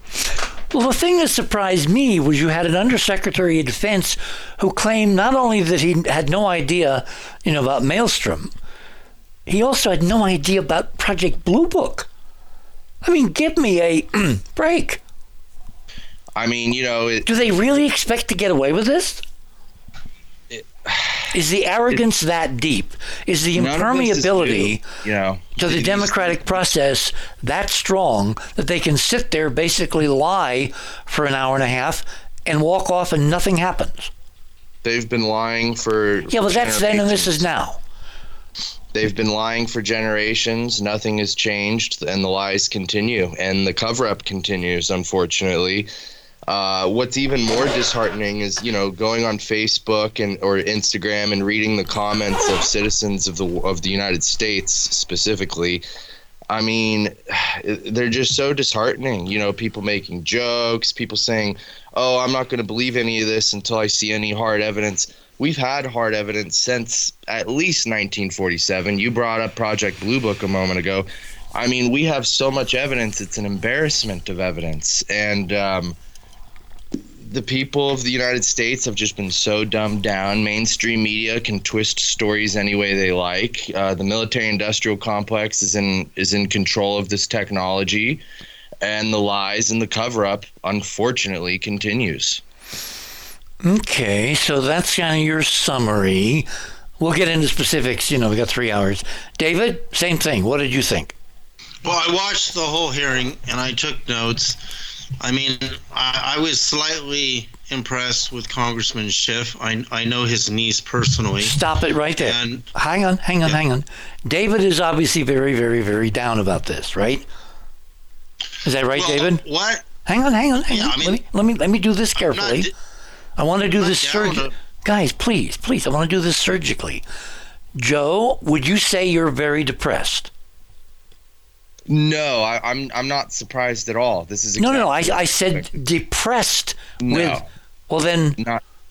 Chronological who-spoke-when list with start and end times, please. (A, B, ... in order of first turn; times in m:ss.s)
0:00.7-0:08.5 A
0:09.5-0:12.1 A
0:13.0-0:15.0 A
0:16.4-0:17.3 B
0:17.3-0:19.2 A
0:20.5-0:21.3 B
0:21.3-0:24.8 A
0:23.5-0:26.4 B
0:25.6-0:34.1 A
0:34.8-0:37.5 B
0:36.3-0:37.8 A
0:38.9-0:45.9 B
0:46.5-0:55.8 B
0:56.5-1:15.9 B
1:17.2-1:28.2 B
1:28.8-1:32.4 B
1:33.6-1:41.1 A
1:41.8-1:44.6 C
1:45.2-1:51.6 C
1:51.4-1:57.2 A
1:52.2-1:52.6 C
1:58.6-1:59.4 A
1:58.9-1:59.8 C
2:00.0-2:02.7 A
2:00.7-2:01.2 C
2:02.2-2:02.7 C
2:03.4-2:07.0 A
2:03.8-2:04.5 C
2:07.8-2:10.3 A
2:11.9-2:15.7 B
2:14.6-2:18.4 A
2:17.0-2:17.5 B